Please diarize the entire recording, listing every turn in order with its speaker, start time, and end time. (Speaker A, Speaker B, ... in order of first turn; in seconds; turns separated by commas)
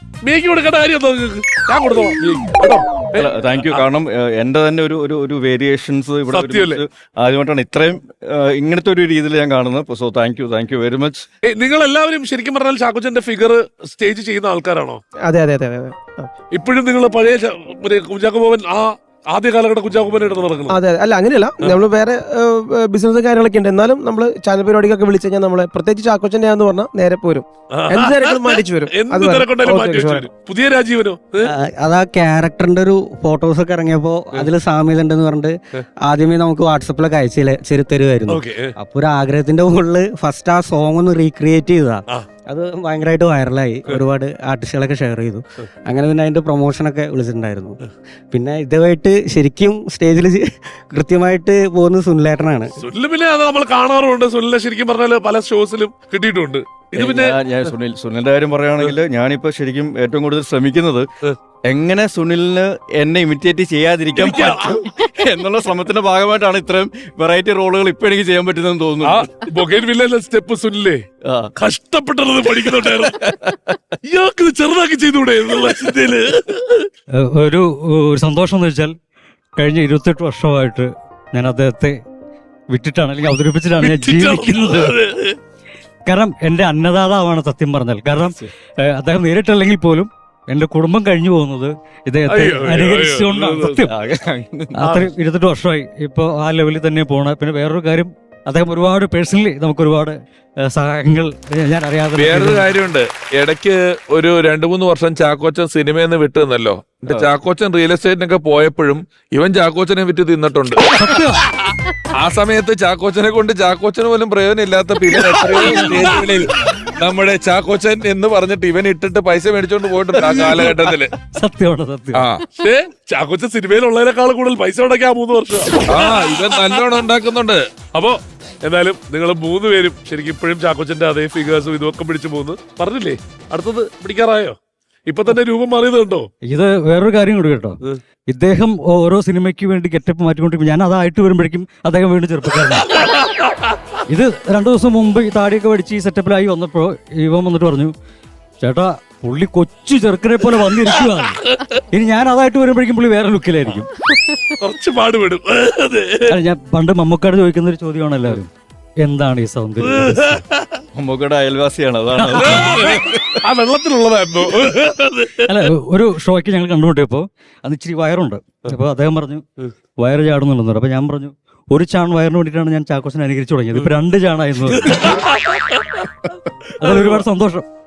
Speaker A: 0.2-3.3, Speaker B: 3.1-11.2, Speaker A: 6.3-6.8, Speaker A: 11.4-15.0, Speaker C: 15.2-16.3, Speaker A: 16.5-20.7, Speaker C: 20.7-30.3, Speaker A: 27.7-31.5, Speaker D: 31.4-35.5, Speaker D: 36.0-47.8, Speaker A: 38.3-38.7, Speaker D: 48.3-52.8, Speaker A: 52.8-57.4, Speaker B: 56.9-61.0, Speaker B: 61.7-69.3, Speaker A: 64.2-64.7, Speaker A: 69.0-71.0, Speaker B: 71.2-71.5, Speaker A: 71.6-73.2, Speaker B: 73.1-73.6, Speaker A: 74.0-76.9, Speaker E: 77.2-78.9, Speaker E: 79.6-82.0, Speaker E: 82.7-85.0, Speaker A: 83.8-85.4, Speaker E: 86.0-93.9, Speaker A: 92.3-93.8, Speaker B: 93.9-94.8, Speaker E: 94.7-102.7, Speaker F: 102.2-110.9, Speaker E: 110.8-111.4, Speaker F: 112.2-121.1, Speaker E: 115.6-116.1, Speaker E: 121.3-122.3, Speaker F: 122.1-122.4, Speaker A: 122.6-126.1, Speaker F: 125.9-127.6, Speaker A: 127.9-136.3, Speaker E: 136.4-143.1, Speaker E: 144.1-147.9, Speaker E: 148.6-151.4, Speaker E: 151.9-153.9, Speaker A: 154.6-156.3, Speaker E: 156.3-160.4, Speaker A: 159.9-160.7, Speaker B: 160.9-162.8, Speaker E: 162.1-163.0, Speaker A: 162.7-165.4, Speaker E: 165.4-169.4, Speaker E: 170.0-175.1, Speaker A: 174.7-175.8, Speaker E: 176.7-177.6, Speaker A: 176.8-177.2